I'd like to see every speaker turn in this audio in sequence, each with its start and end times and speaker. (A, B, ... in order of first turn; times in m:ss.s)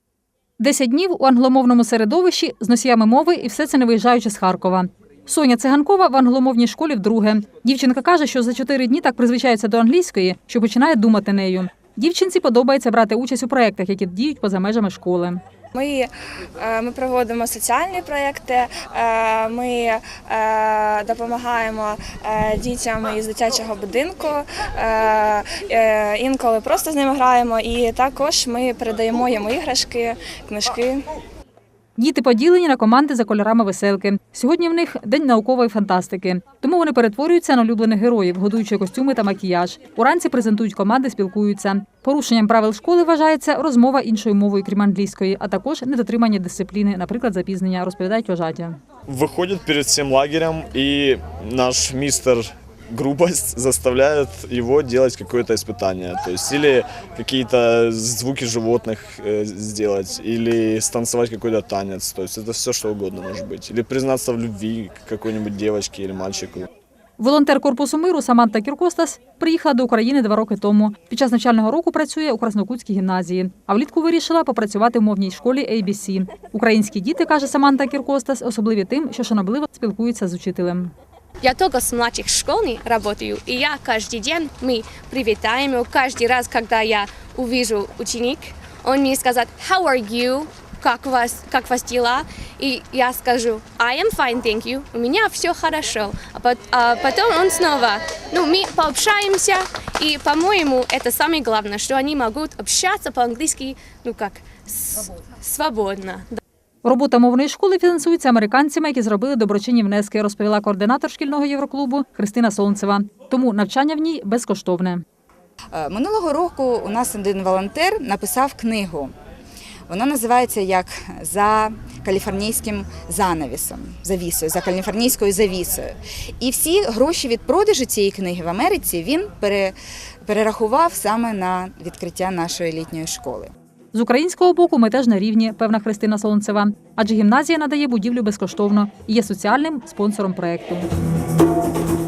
0:00.6-0:15.4 A
0:15.7-0:31.0 B
0:32.0-0:48.8 A
0:49.1-1:06.7 C
1:07.2-1:20.9 A
1:21.4-1:46.4 D
1:46.8-1:55.0 A
1:55.7-1:59.1 E
1:59.9-2:13.5 E
2:13.9-2:20.9 A